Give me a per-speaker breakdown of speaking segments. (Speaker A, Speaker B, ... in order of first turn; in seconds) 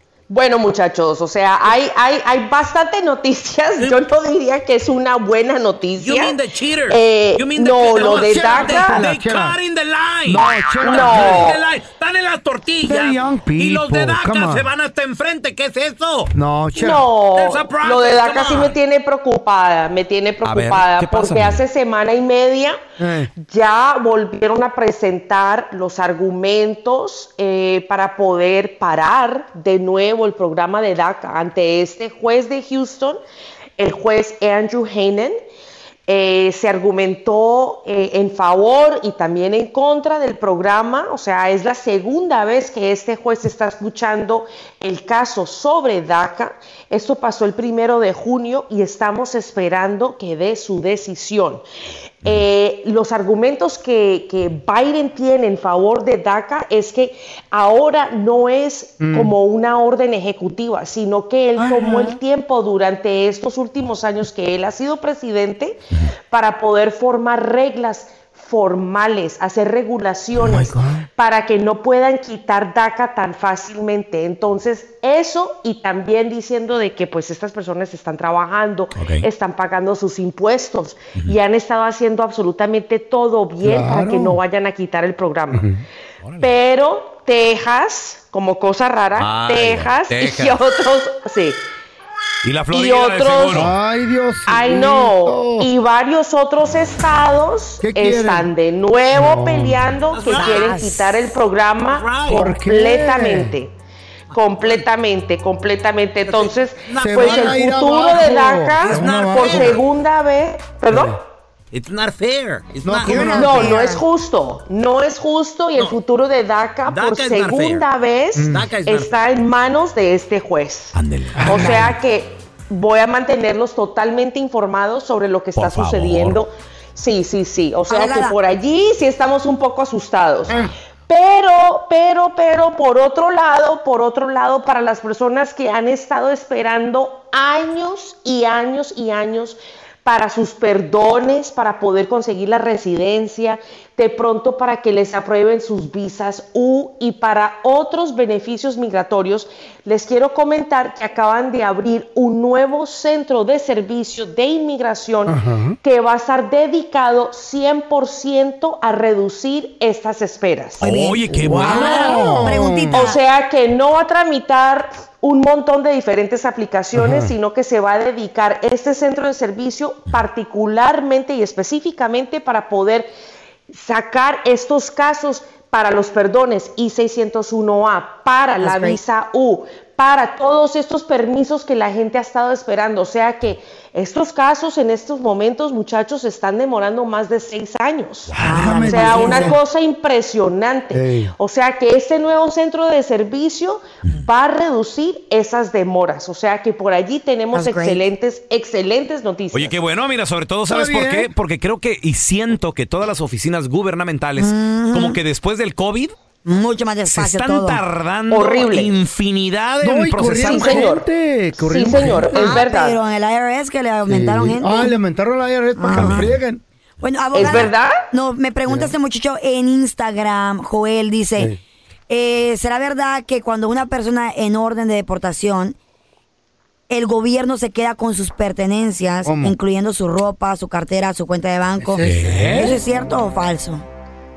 Speaker A: 0.3-9.0, 10.8-11.6, 16.8-22.8, 23.4-33.2, 33.8-35.4, 36.1-51.6, 52.2-85.7, 86.4-91.6, 92.7-93.7, 94.5-103.7, 104.3-111.2, 113.3-160.8, 161.8-162.1, 162.9-173.1, 173.7-188.3, 188.9-199.8, 208.3-208.9, 210.3-211.1, 211.6-213.0, 217.3-218.1
Speaker B: 6.0-16.3, 17.3-18.8, 100.1-100.8, 101.9-102.5, 104.5-104.8, 106.3-107.7, 108.8-109.8, 111.7-113.6, 116.9-117.8, 118.5-119.1
Speaker C: 8.2-9.6, 10.2-11.5, 12.8-14.7, 16.3-17.1, 23.0-23.3, 59.0-59.4, 61.6-62.2, 70.3-71.1, 83.6-84.4, 85.5-85.8, 93.5-95.7, 97.8-98.5, 99.1-99.9, 102.3-103.5, 107.0-109.8, 110.9-111.2, 112.8-113.8, 118.3-118.7, 121.3-121.9, 130.5-130.7, 155.3-155.8, 161.3-163.1, 166.9-167.3, 188.4-189.6, 190.9-191.3, 200.7-201.3, 209.8-212.7, 214.1-216.6, 218.7-218.9, 229.2-229.6, 231.8-232.8
Speaker D: 20.4-21.6, 79.0-79.3, 86.2-86.5, 89.2-90.6, 92.4-93.7, 120.9-121.9, 125.6-126.4, 160.8-162.4, 188.3-188.8, 199.5-206.2, 207.1-210.9, 215.9-216.4, 232.0-232.8
Speaker E: 100.4-101.3, 113.1-114.0, 127.9-128.4, 160.8-163.2, 178.6-179.0, 188.4-189.6, 197.5-198.0, 204.4-205.2, 206.4-207.8, 212.3-214.9, 215.8-216.3, 217.0-221.6, 222.1-225.8, 226.9-233.8